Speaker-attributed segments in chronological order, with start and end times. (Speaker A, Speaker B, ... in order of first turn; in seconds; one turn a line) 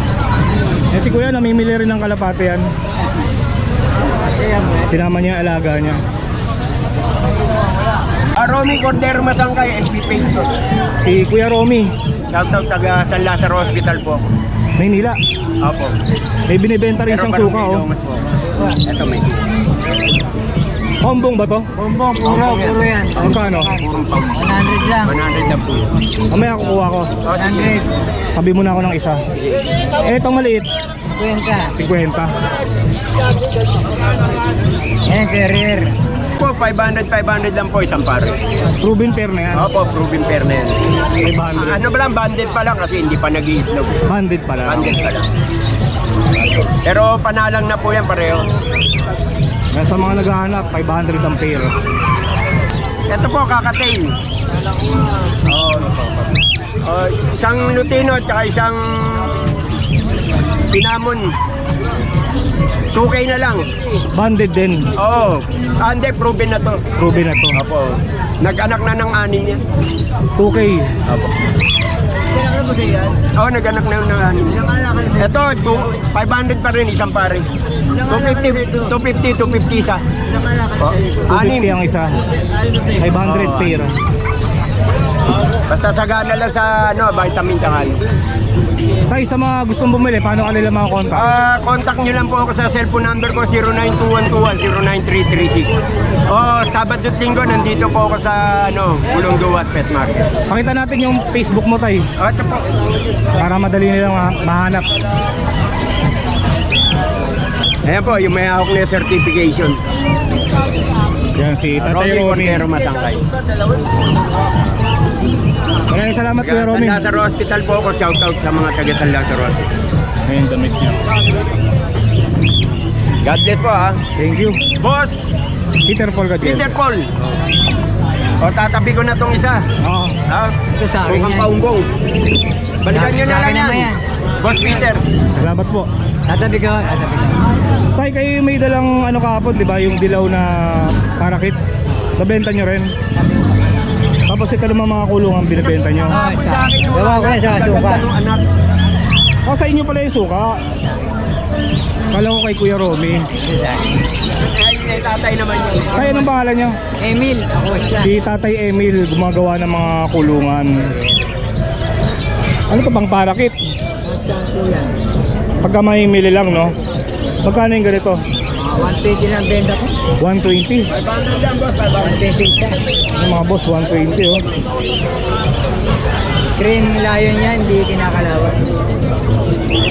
Speaker A: 0.9-2.7
Speaker B: 4.4-4.9
Speaker A: 4.9-6.0
Speaker C: 8.4-10.5
Speaker A: 11.0-11.9
Speaker C: 12.3-14.3
Speaker A: 14.8-15.2
Speaker C: 15.6-15.9
Speaker A: 16.5-17.9
Speaker C: 17.1-19.5
Speaker A: 21.0-21.7
Speaker C: 21.8-24.5
Speaker B: 21.9-25.1
Speaker A: 23.2-23.7
Speaker C: 25.0-25.9
Speaker A: 26.3-27.1
Speaker C: 27.2-27.8
Speaker B: 27.4-27.9
Speaker A: 28.3-29.2
Speaker A: 30.0-30.7
Speaker B: 31.2-31.7
Speaker A: 31.8-32.3
Speaker B: 35.0-36.0
Speaker C: 36.4-38.4
Speaker A: 38.8-39.7
Speaker C: 39.6-40.8
Speaker A: 41.2-41.8
Speaker C: 41.5-44.0
Speaker A: 44.1-45.0
Speaker C: 44.7-45.3
Speaker C: 46.7-48.5
Speaker A: 49.7-51.7
Speaker C: 53.1-54.1
Speaker C: 55.5-56.0
Speaker C: 56.8-59.3
Speaker C: 60.7-61.2
Speaker C: 62.9-63.6
Speaker A: 64.1-64.8
Speaker C: 65.0-66.8
Speaker A: 67.0-67.6
Speaker C: 67.6-69.6
Speaker A: 70.4-70.9
Speaker B: 72.5-73.1
Speaker C: 73.2-80.0
Speaker C: 80.8-81.8
Speaker A: 81.3-82.2
Speaker A: 82.9-83.9
Speaker C: 83.2-83.9
Speaker C: 85.7-88.0
Speaker A: 89.1-91.3
Speaker C: 91.1-95.7
Speaker C: 96.3-100.3
Speaker A: 100.5-102.1
Speaker C: 102.2-102.7
Speaker A: 103.4-104.9
Speaker C: 107.9-109.8
Speaker A: 111.4-112.7
Speaker C: 111.8-113.2
Speaker A: 115.9-117.0
Speaker C: 116.4-119.7
Speaker A: 120.3-121.0
Speaker C: 123.2-124.0
Speaker A: 124.2-124.6
Speaker C: 124.8-125.2
Speaker A: 125.8-126.8
Speaker C: 126.4-127.2
Speaker C: 128.4-129.6
Speaker A: 129.8-130.2
Speaker C: 130.3-130.5
Speaker B: 130.8-131.5
Speaker C: 131.1-131.9
Speaker C: 132.8-133.9
Speaker B: 132.9-134.0
Speaker C: 134.4-135.0
Speaker A: 135.3-135.9
Speaker B: 136.3-137.4
Speaker A: 137.9-141.6
Speaker A: 142.2-142.9
Speaker A: 144.3-146.2
Speaker C: 145.7-148.4
Speaker B: 146.1-148.1
Speaker A: 149.4-150.6
Speaker A: 152.1-153.3
Speaker B: 153.4-153.9
Speaker C: 154.3-156.1
Speaker A: 155.9-156.8
Speaker B: 157.0-158.1
Speaker A: 158.0-160.7
Speaker A: 162.7-163.6
Speaker B: 164.0-165.0
Speaker A: 165.6-166.7
Speaker A: 167.4-168.2
Speaker B: 168.6-169.9
Speaker A: 170.2-170.9
Speaker C: 170.9-172.2
Speaker B: 172.0-172.8
Speaker A: 173.2-174.4
Speaker B: 176.6-178.8